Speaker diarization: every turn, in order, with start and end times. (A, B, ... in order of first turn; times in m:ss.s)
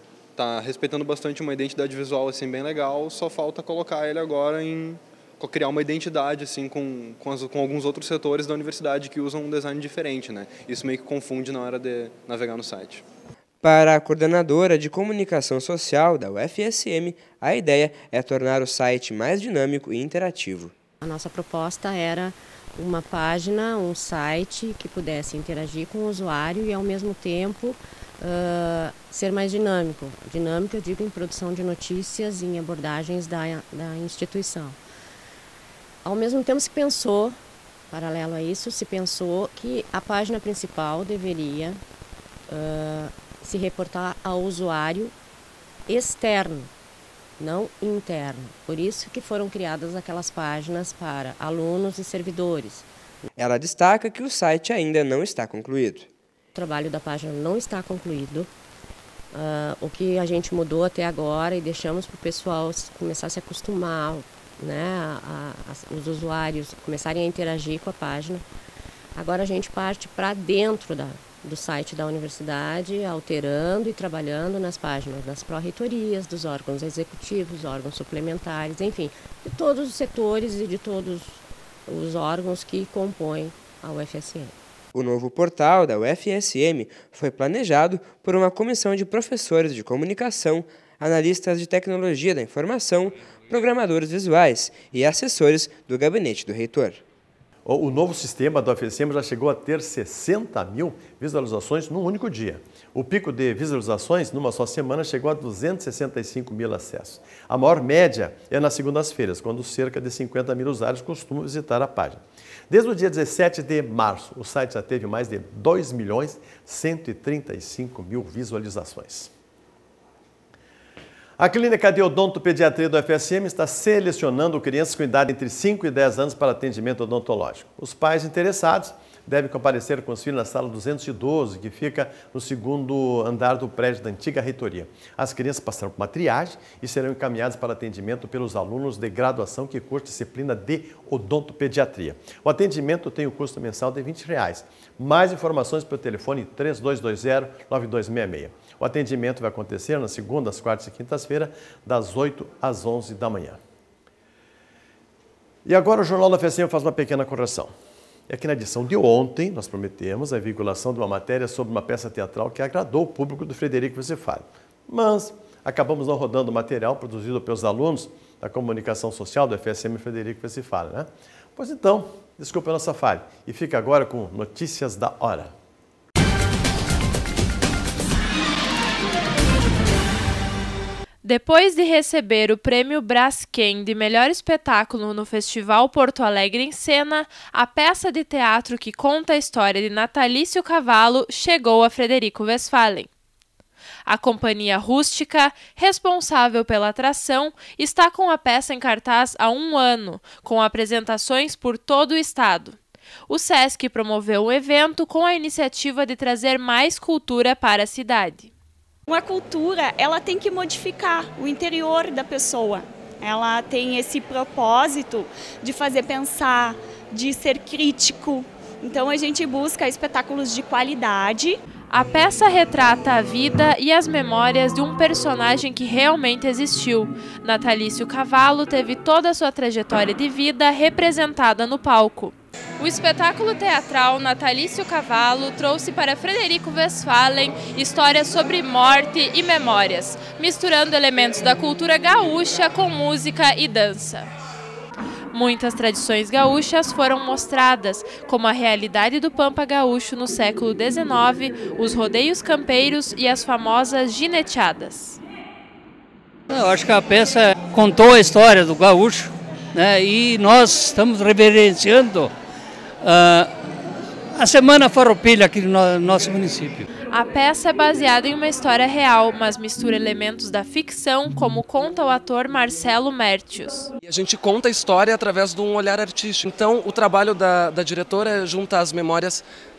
0:00.4-0:13.0 A
0:13.6-0:20.7 B
0:21.0-0:34.8 C
0:36.0-0:37.4 C
0:37.9-0:41.8 C
0:42.5-0:45.2 C
0:45.9-0:46.7 C
0:47.4-0:52.9 C
0:53.4-0:56.1 B
0:56.5-0:58.5 C
0:59.3-1:08.4 C
1:09.2-1:24.6 C
1:24.9-1:37.0 B
1:37.6-1:59.3 D
2:01.4-2:33.6 D
2:35.6-2:37.7 D
2:38.3-2:55.5 D
3:01.2-3:13.1 E
3:14.1-3:28.5 E
3:29.1-3:41.6 F
3:41.9-4:04.3 E
4:05.3-4:15.2 E
4:16.5-4:22.3 G
4:23.0-4:23.5 G
4:24.3-4:26.8 G
4:27.1-4:33.9 E
4:34.0-4:39.4 H